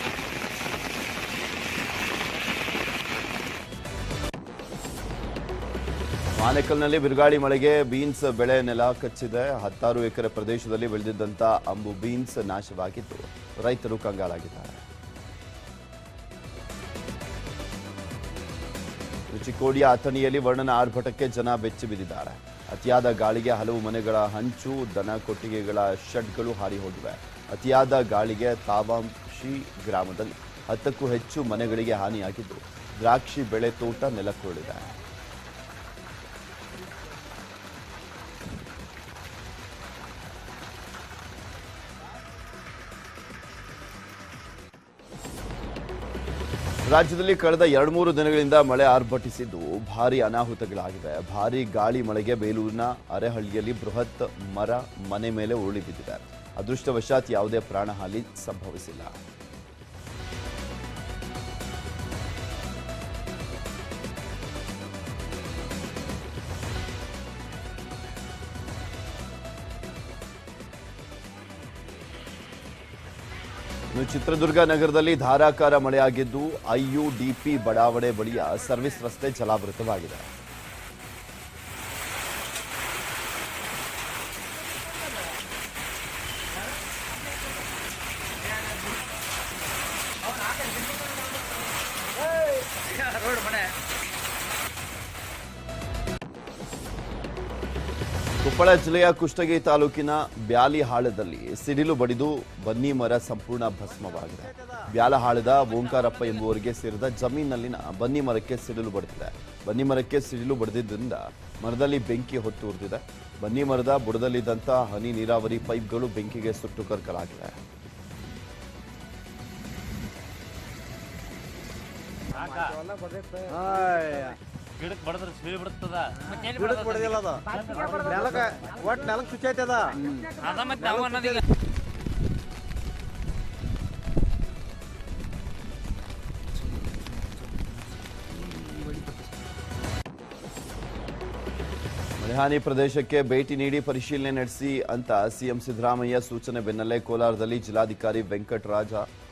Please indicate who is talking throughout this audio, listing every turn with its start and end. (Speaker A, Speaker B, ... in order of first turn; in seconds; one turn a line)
Speaker A: 6.4-14.9
Speaker A: 19.3-34.9
Speaker A: 46.9-59.2
Speaker A: 73.9-80.3
Speaker B: 92.8-93.7
Speaker A: 98.4-117.6
Speaker C: 122.3-124.4
Speaker B: 122.3-122.8
Speaker B: 124.8-128.8
Speaker C: 126.5-131.1
Speaker B: 130.2-131.4
Speaker C: 136.6-139.3
Speaker A: 142.2-149.1